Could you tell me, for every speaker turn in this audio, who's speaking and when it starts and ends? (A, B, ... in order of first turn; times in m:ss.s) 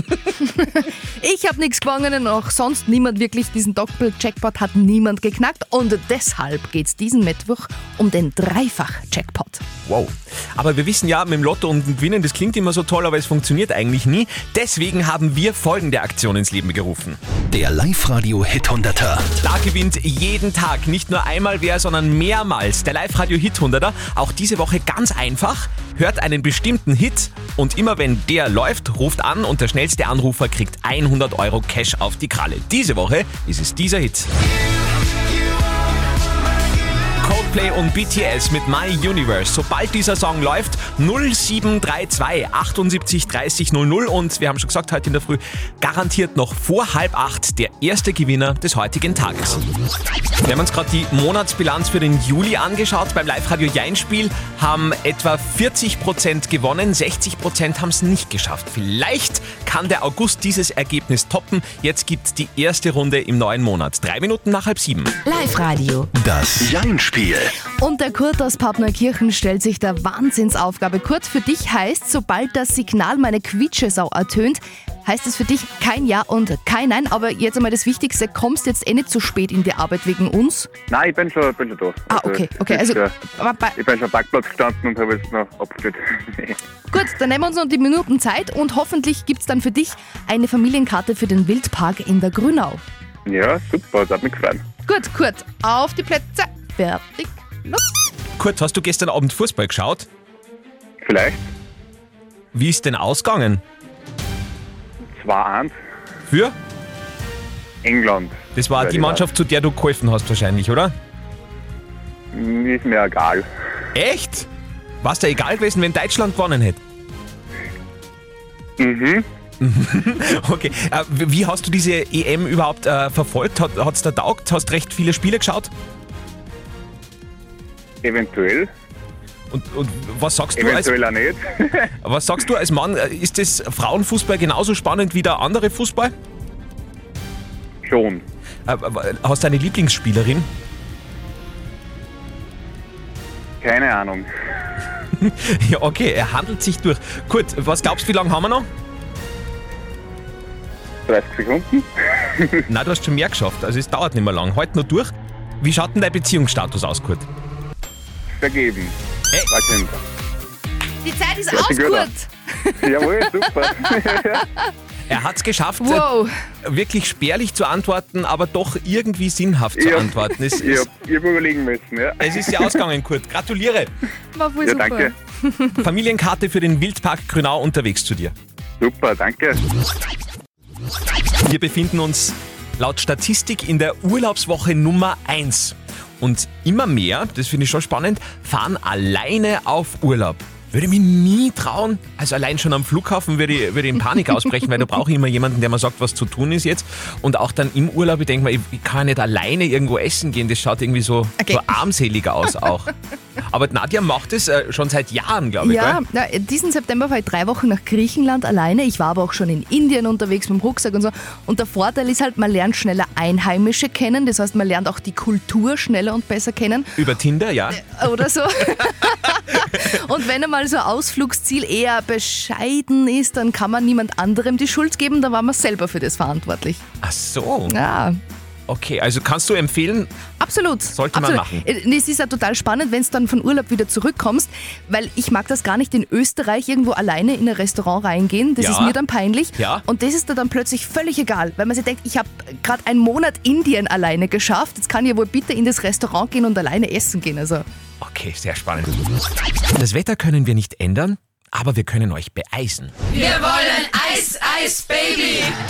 0:00.3-0:09.6 A
0:09.9-0:17.2 B
0:17.5-0:19.3 C
0:19.4-0:34.3 B
0:37.2-0:49.6 B
0:50.4-1:05.2 B
1:05.2-1:06.1 D
1:06.2-1:07.5 C
1:07.8-1:20.7 A
1:20.9-1:23.2 E
1:22.1-1:23.8 A
1:23.8-1:26.6 E
1:26.9-1:32.8 A
1:33.3-1:34.6 E
1:34.9-1:37.8 A
1:38.4-1:40.1 B
1:41.0-1:41.5 E
1:42.5-1:43.6 B
1:45.2-1:45.8 E
1:46.3-1:46.6 B
1:47.8-1:49.3 E
1:48.6-1:50.9 B
1:52.3-1:53.5 E
1:54.0-1:54.5 B
1:55.0-1:56.8 B
1:58.8-1:59.3 E
1:59.6-2:05.7 B
2:08.0-2:08.7 E
2:09.5-2:11.0 B
2:10.6-2:11.8 E
2:12.0-2:16.1 B
2:17.8-2:18.2 E
2:18.7-2:20.5 B
2:23.6-2:24.3 E
2:25.2-2:28.7 B
2:31.1-2:32.6 E
2:32.7-2:35.1 B
2:35.6-2:37.3 B
2:38.3-2:39.0 E
2:39.5-2:40.0 E
2:41.0-2:43.7 A
2:41.5-2:42.1 E
2:42.8-2:44.4 E
2:45.1-2:46.1 B
2:45.8-2:46.3 A
2:46.6-2:50.9 B
2:49.8-2:52.8 E
2:52.2-2:53.9 B
2:54.3-2:55.8 A
2:54.6-2:55.1 E
2:55.8-2:58.3 B
2:58.8-2:59.6 E
3:01.4-3:26.0 B
3:25.6-3:37.0 A
3:37.0-3:38.1 B
3:37.7-3:46.8 A
3:47.0-3:47.8 B
3:47.7-3:48.2 A
3:48.7-3:50.1 B
3:50.4-4:07.6 A
3:50.9-3:51.6 B
3:58.6-3:59.0 B
3:59.6-3:59.8 B
4:08.0-4:09.0 B
4:09.8-4:12.9 B
4:13.2-4:15.5 D